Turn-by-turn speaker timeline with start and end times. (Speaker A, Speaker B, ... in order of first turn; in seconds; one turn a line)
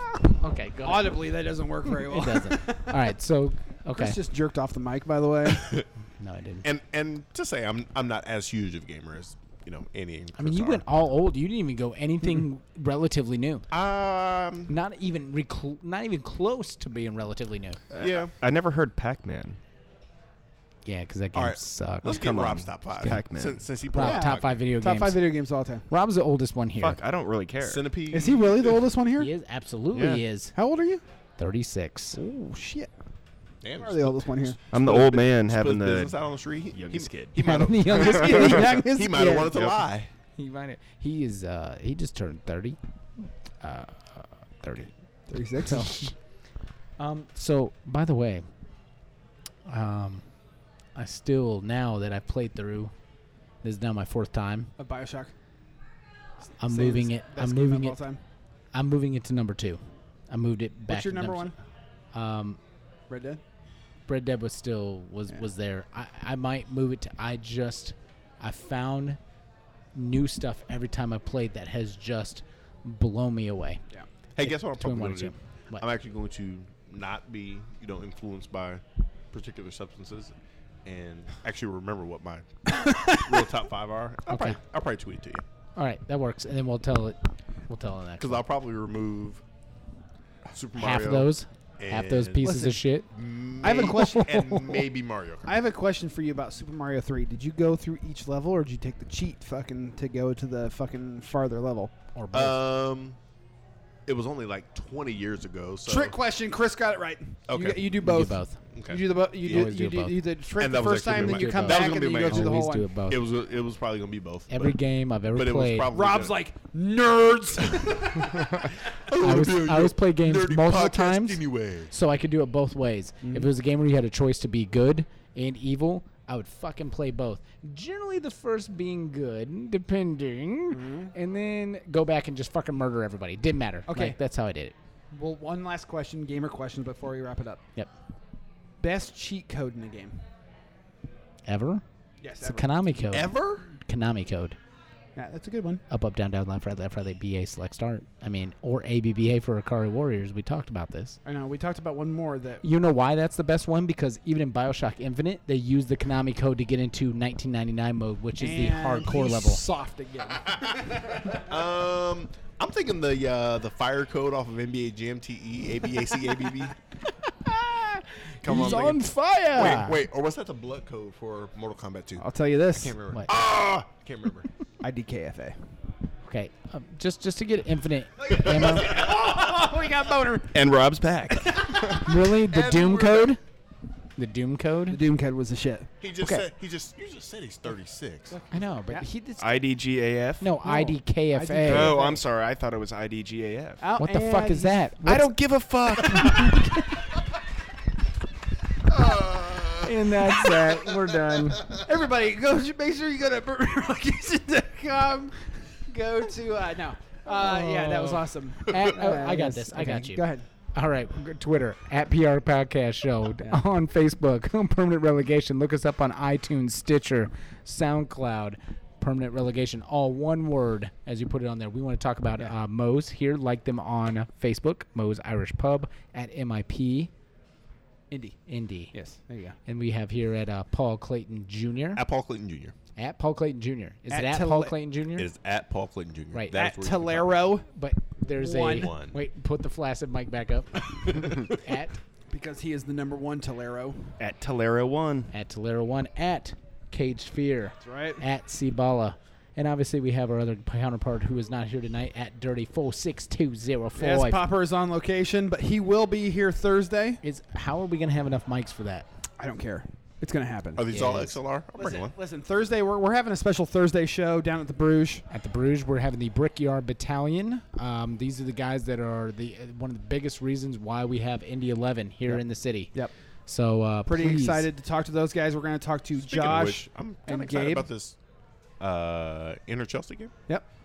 Speaker A: 0.4-1.2
Speaker B: 0.8-3.0
Speaker A: 1.9-4.2
Speaker B: 4.0-5.7
Speaker C: 5.5-5.9
Speaker A: 6.2-6.6
Speaker C: 6.6-10.8
Speaker A: 10.3-13.7
Speaker C: 13.7-14.7
Speaker A: 14.7-17.8
Speaker D: 17.9-19.6
Speaker C: 18.0-18.3
Speaker A: 20.8-22.2
Speaker C: 21.3-24.6
Speaker D: 22.0-23.6
Speaker A: 23.9-25.2
Speaker B: 24.0-25.8
Speaker A: 25.9-27.0
Speaker D: 26.8-27.8
Speaker C: 27.6-28.8
Speaker B: 28.1-29.3
Speaker A: 29.2-30.5
Speaker D: 29.9-30.2
Speaker B: 30.5-31.0
Speaker A: 31.4-32.2
Speaker B: 32.1-32.9
Speaker C: 33.6-40.1
Speaker B: 33.8-34.6
Speaker D: 34.7-36.1
Speaker D: 36.7-37.4
Speaker A: 37.4-38.7
Speaker B: 37.8-39.6
Speaker A: 40.4-42.8
Speaker A: 43.6-44.9
Speaker B: 45.3-46.0
Speaker A: 45.6-46.1
Speaker A: 47.0-48.4
Speaker A: 49.6-50.2
Speaker A: 50.9-52.9
Speaker A: 53.6-54.7
Speaker B: 54.8-55.3
Speaker A: 56.6-58.0
Speaker B: 56.6-58.2
Speaker A: 58.7-61.5
Speaker B: 60.9-61.5
Speaker A: 62.1-62.6
Speaker B: 63.1-63.4
Speaker A: 64.1-69.2
Speaker A: 69.9-73.8
Speaker C: 74.3-80.3
Speaker A: 74.4-75.8
Speaker C: 80.8-85.4
Speaker B: 82.8-83.4
Speaker A: 84.3-84.6
Speaker A: 85.8-88.4
Speaker C: 88.2-89.4
Speaker C: 90.5-92.6
Speaker A: 90.8-93.1
Speaker B: 92.4-92.8
Speaker C: 93.1-95.6
Speaker B: 93.6-94.6
Speaker A: 93.6-94.6
Speaker B: 95.5-101.9
Speaker A: 102.1-102.6
Speaker C: 102.3-103.2
Speaker C: 104.1-106.1
Speaker B: 105.8-112.8
Speaker C: 107.5-108.0
Speaker A: 108.0-108.6
Speaker C: 108.7-109.7
Speaker A: 109.4-110.2
Speaker C: 110.6-114.8
Speaker A: 111.1-113.2
Speaker A: 114.5-115.9
Speaker C: 115.3-116.3
Speaker B: 115.9-118.6
Speaker C: 118.3-121.9
Speaker A: 119.2-134.7
Speaker B: 123.2-123.5
Speaker B: 130.7-131.1
Speaker B: 133.9-134.2
Speaker B: 135.1-137.6
Speaker B: 138.8-140.2
Speaker A: 141.4-141.8
Speaker B: 142.2-142.7
Speaker A: 142.4-144.6
Speaker C: 143.1-143.7
Speaker B: 145.2-145.8
Speaker A: 145.9-151.2
Speaker B: 151.2-152.6
Speaker A: 152.6-159.6
Speaker B: 158.4-161.4
Speaker C: 160.5-166.8
Speaker A: 167.1-170.0
Speaker C: 168.4-174.5
Speaker B: 172.2-172.9
Speaker B: 174.8-175.6
Speaker A: 176.2-179.0
Speaker B: 178.2-180.7
Speaker C: 178.2-179.7
Speaker D: 180.5-181.9
Speaker B: 181.4-182.0
Speaker A: 182.0-183.4
Speaker C: 182.4-183.3
Speaker A: 184.2-185.0
Speaker B: 184.9-185.9
Speaker C: 186.0-188.4
Speaker A: 186.2-186.5
Speaker B: 188.3-189.0
Speaker A: 188.5-189.6
Speaker D: 189.4-190.5
Speaker A: 190.4-192.0
Speaker B: 190.6-192.2
Speaker D: 191.6-193.8
Speaker B: 193.8-195.3
Speaker A: 194.0-197.1
Speaker D: 195.3-196.4
Speaker C: 198.9-200.7
Speaker A: 199.8-201.7
Speaker C: 201.5-201.8
Speaker B: 201.7-210.4
Speaker A: 207.2-227.1
Speaker B: 228.1-228.4
Speaker A: 228.5-228.9
Speaker B: 228.9-229.6
Speaker A: 229.7-232.0
Speaker C: 231.9-232.7
Speaker A: 232.9-235.3
Speaker B: 234.1-234.7
Speaker C: 235.1-237.4
Speaker B: 236.5-237.7
Speaker A: 237.7-242.0
Speaker B: 238.4-238.9
Speaker C: 238.6-239.2
Speaker C: 241.1-241.4
Speaker B: 242.3-244.1
Speaker D: 244.2-245.3
Speaker A: 245.3-254.4
Speaker B: 247.8-248.2
Speaker B: 253.9-257.2
Speaker A: 257.2-259.1
Speaker B: 259.4-260.8
Speaker C: 260.8-262.1
Speaker A: 260.9-261.4
Speaker B: 261.8-265.2
Speaker A: 265.3-274.6
Speaker B: 272.3-273.1
Speaker B: 274.1-277.9
Speaker C: 276.2-278.2
Speaker C: 278.8-280.3